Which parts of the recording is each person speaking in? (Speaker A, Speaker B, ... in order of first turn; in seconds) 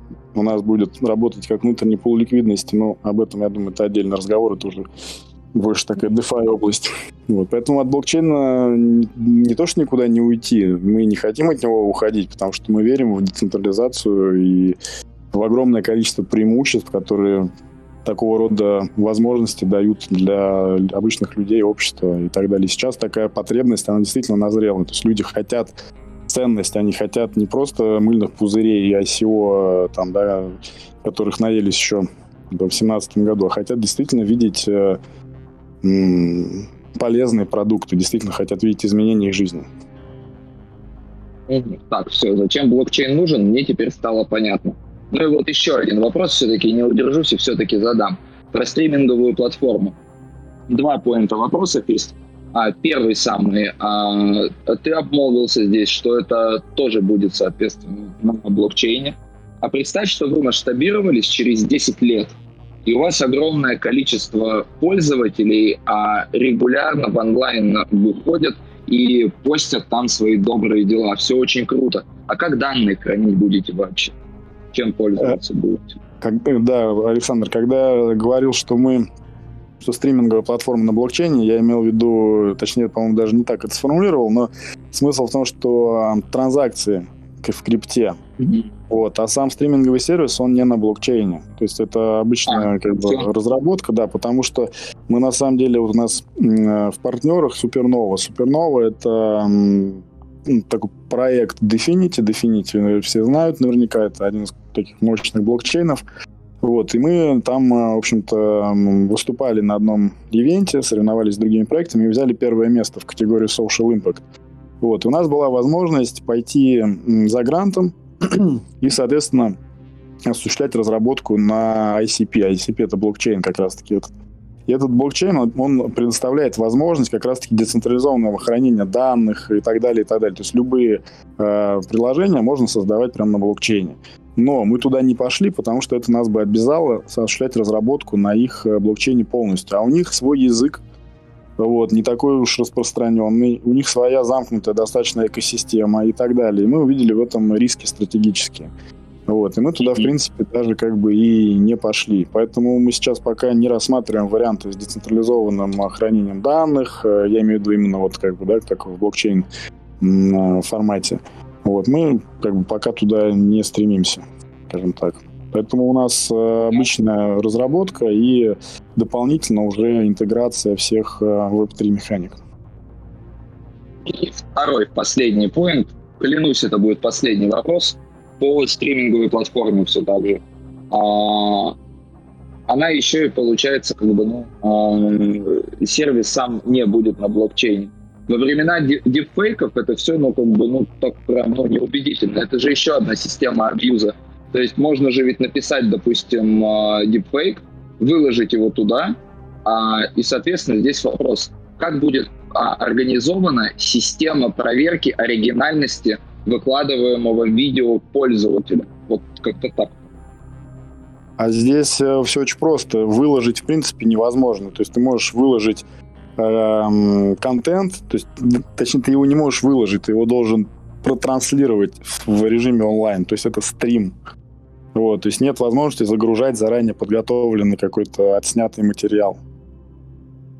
Speaker A: 0.3-4.8, 5.5-14.8, 15.3-17.5, 18.0-35.0, 35.8-39.7, 76.2-79.0, 79.8-88.2, 88.9-106.0, 106.6-114.2, 114.8-119.5, 120.2-124.1, 124.7-140.8, 141.6-148.7, 149.3-159.4, 160.0-172.4, 211.4-215.8, 216.4-224.2, 224.9-229.4
Speaker B: 41.5-50.0, 50.7-74.1, 74.7-75.9, 92.5-93.2, 149.8-150.1, 174.0-181.7, 182.7-210.0